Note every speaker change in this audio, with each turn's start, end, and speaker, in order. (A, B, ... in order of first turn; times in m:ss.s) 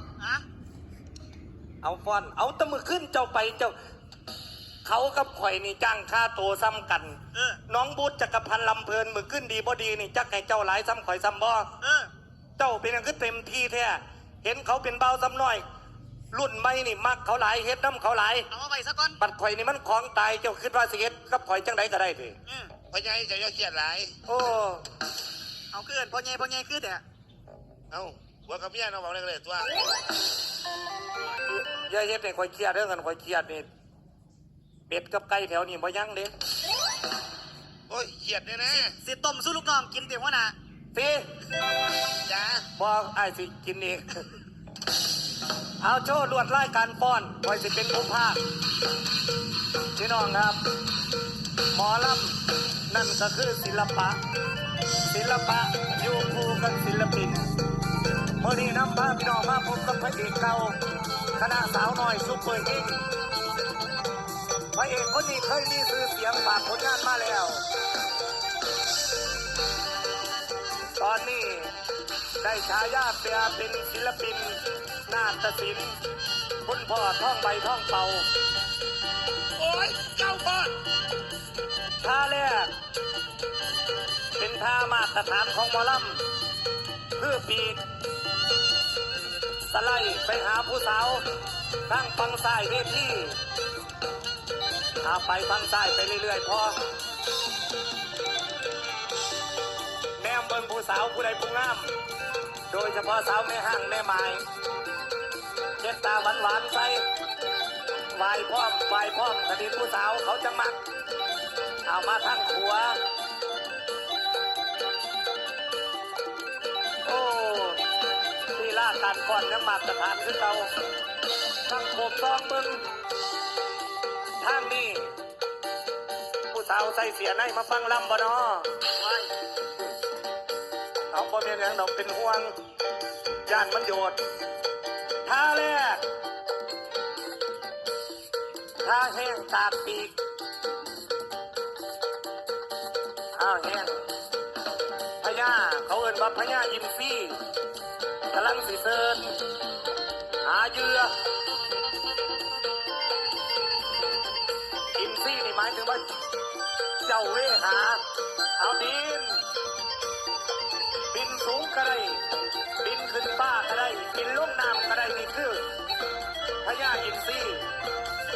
0:00.2-0:00.4 A
0:01.8-0:03.7 B
0:04.8-0:11.7 B
0:07.3-0:07.6 A
0:11.8-0:12.1 A
0:12.6-0:15.6 B
0:16.3-0:18.5 B
0:18.5-0:19.2 A
0:19.2-0:22.4 B
0:22.4-0:22.7 A
0:22.9-0:24.1 C
0:24.2-0:24.8 B
0:25.7-0:27.0 A
0:27.9-0:29.7 C
0:31.6-0:33.7 B
0:34.9-0:36.3 B
0:37.9-0:39.0 C
0:38.7-0:40.5 A
0:40.9-0:41.3 B
0:42.2-0:42.6 C
0:42.8-0:44.2 B
0:45.8-0:48.4 B
0:49.9-0:50.6 B
0:51.7-0:54.2 B
0:55.1-0:57.5 B
0:58.4-1:00.8 B
1:01.3-1:03.0 B
1:04.7-1:07.6 B
1:11.0-1:11.7 B
1:12.4-1:16.0 B
1:16.6-1:18.2 B
1:19.6-1:20.7 C
1:22.0-1:22.7 B
1:24.4-1:26.2 B
1:27.2-1:27.8 B
1:29.7-1:31.2 B
1:31.9-1:33.4 B
1:35.0-1:36.8 B
1:40.2-1:41.9 B
1:42.7-1:44.4 B
1:45.8-1:47.0 B
1:48.1-1:50.8 B
1:51.9-1:53.0 B
1:57.0-1:57.8 B
1:58.5-2:00.7 B
2:01.6-2:02.8 B
2:04.4-2:05.1 B
2:06.5-2:08.8 B
2:09.0-2:09.3 A
2:11.1-2:12.5 B
2:13.4-2:14.2 B
2:15.2-2:16.0 B
2:18.8-2:20.1 B
2:23.3-2:24.1 B
2:25.2-2:27.4 B
2:28.3-2:29.4 B
2:30.4-2:31.1 B
2:35.0-2:36.1 B
2:37.0-2:38.0 B
2:38.6-2:39.4 B
2:41.1-2:42.2 B
2:42.8-2:45.6 B
2:46.6-2:47.7 B